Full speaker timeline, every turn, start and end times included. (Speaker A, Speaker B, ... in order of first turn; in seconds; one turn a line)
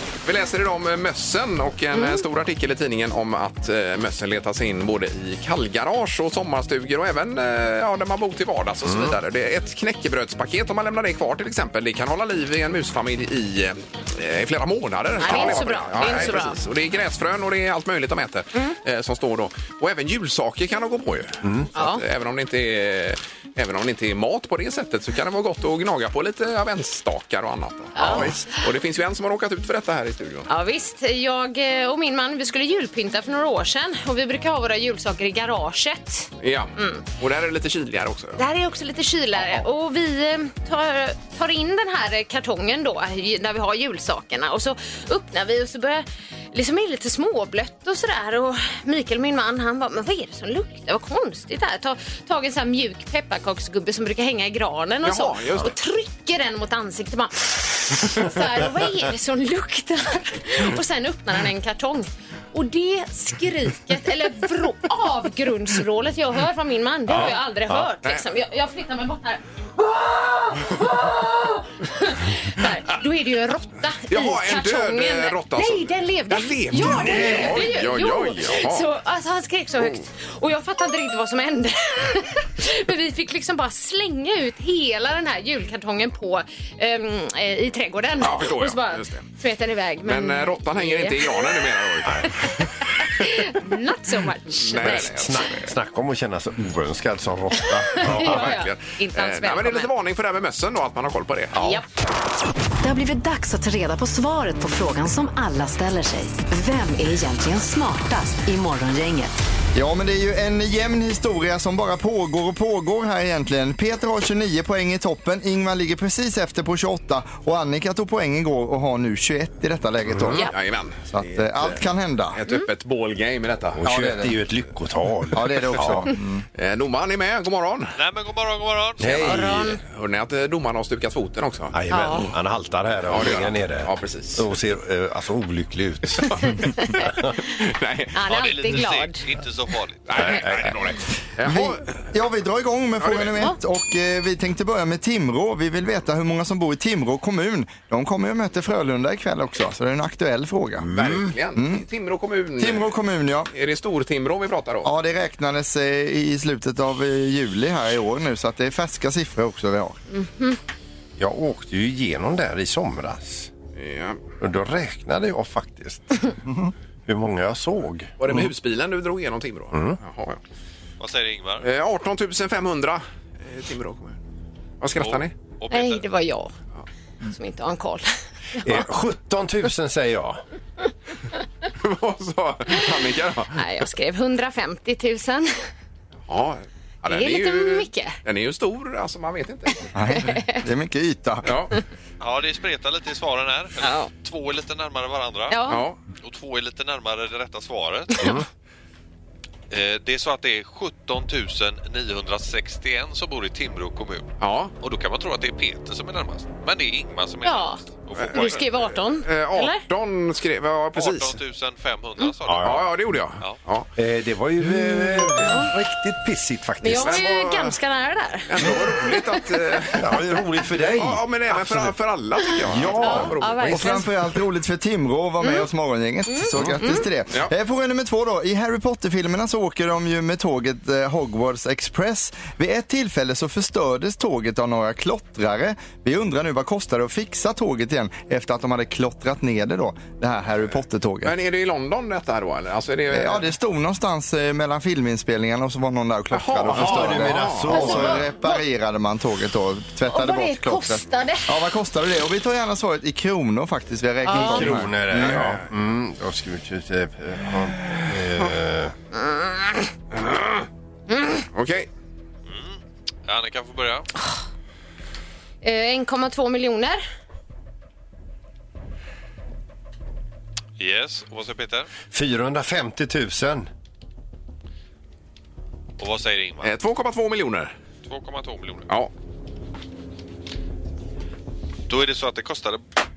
Speaker A: 0.2-30.5
Speaker B: 1.9-2.2
Speaker C: 8.8-9.2
Speaker B: 15.2-16.6
Speaker C: 15.3-15.6
Speaker B: 21.7-22.0
Speaker B: 27.9-28.3
Speaker C: 28.0-28.3
Speaker B: 30.5-37.0
Speaker A: 36.4-38.4
Speaker B: 38.4-91.6
Speaker A: 55.0-55.7
Speaker A: 67.1-67.4
Speaker C: 67.1-67.9
Speaker A: 74.1-78.8
Speaker C: 76.8-77.6
Speaker A: 88.2-89.3
Speaker A: 90.0-92.7
Speaker B: 92.4-95.3
Speaker A: 94.6-95.7
Speaker C: 94.8-98.6
Speaker B: 97.6-99.9
Speaker A: 98.0-101.8
Speaker B: 101.5-101.8
Speaker D: 102.8-109.4
Speaker E: 109.7-120.5
Speaker C: 120.1-120.4
Speaker A: 120.4-121.0
Speaker E: 121.1-122.4
Speaker A: 122.3-123.8
Speaker C: 123.7-126.0
Speaker E: 123.8-124.4
Speaker E: 125.3-126.4
Speaker A: 126.5-127.9
Speaker F: 128.0-129.3
Speaker C: 129.0-129.8
Speaker B: 129.2-129.8
Speaker A: 129.8-131.7
Speaker C: 131.7-136.4
Speaker B: 131.9-132.3
Speaker A: 133.1-134.4
Speaker A: 136.2-138.1
Speaker B: 136.8-137.1
Speaker B: 138.1-139.2
Speaker F: 138.2-140.4
Speaker A: 140.1-142.1
Speaker C: 140.2-140.9
Speaker E: 141.4-150.9
Speaker A: 143.0-143.4
Speaker A: 150.8-153.0
Speaker C: 150.9-151.3
Speaker E: 151.5-151.8
Speaker E: 152.6-153.5
Speaker A: 153.5-154.9
Speaker E: 154.8-160.0
Speaker B: 160.1-160.6
Speaker C: 161.2-163.5
Speaker A: 163.8-164.2
Speaker C: 164.4-166.3
Speaker C: 167.1-168.1
Speaker A: 168.2-170.4
Speaker C: 169.7-170.0
Speaker F: 171.0-171.7
Speaker A: 171.6-174.2
Speaker A: 174.8-175.3
Speaker F: 175.0-176.1
Speaker B: 175.7-176.5
Speaker B: 177.2-178.7
Speaker C: 178.6-180.4
Speaker A: 181.8-183.6
Speaker B: 183.5-185.6
Speaker A: 186.3-189.9
Speaker B: 187.1-188.2
Speaker E: 189.9-191.6
Speaker B: 190.1-190.6
Speaker A: 191.4-191.7
Speaker F: 192.2-195.6
Speaker B: 193.8-194.1
Speaker B: 195.5-195.8
Speaker A: 195.7-196.0
Speaker F: 196.2-198.3
Speaker C: 198.2-198.4
Speaker F: 199.7-208.7
Speaker A: 204.4-204.7
Speaker B: 207.4-207.8
Speaker B: 208.3-209.8
Speaker A: 209.2-211.4
Speaker F: 210.9-212.8
Speaker C: 212.4-212.9
Speaker A: 212.6-213.9
Speaker C: 214.0-217.6
Speaker B: 215.0-215.7
Speaker B: 216.8-218.8
Speaker A: 216.9-217.7
Speaker A: 218.5-220.2
Speaker C: 219.9-221.9
Speaker A: 220.9-224.1
Speaker C: 222.6-223.3
Speaker B: 223.0-224.1
Speaker E: 223.7-241.3
Speaker B: 226.3-227.1
Speaker A: 241.2-243.4
Speaker E: 243.1-255.4
Speaker A: 246.3-248.0
Speaker C: 246.7-248.3
Speaker B: 247.7-248.6
Speaker B: 250.1-251.5
Speaker B: 254.2-254.8
Speaker C: 254.3-258.9
Speaker A: 255.1-255.6
Speaker A: 258.0-258.4
Speaker B: 259.2-259.8
Speaker A: 260.1-260.7
Speaker B: 261.1-261.4
Speaker A: 261.5-261.9
Speaker F: 262.5-264.1
Speaker B: 265.6-267.0
Speaker F: 270.8-271.9
Speaker C: 272.1-273.7
Speaker F: 276.0-276.7
Speaker A: 276.6-277.7
Speaker F: 278.0-278.9
Speaker F: 281.9-282.8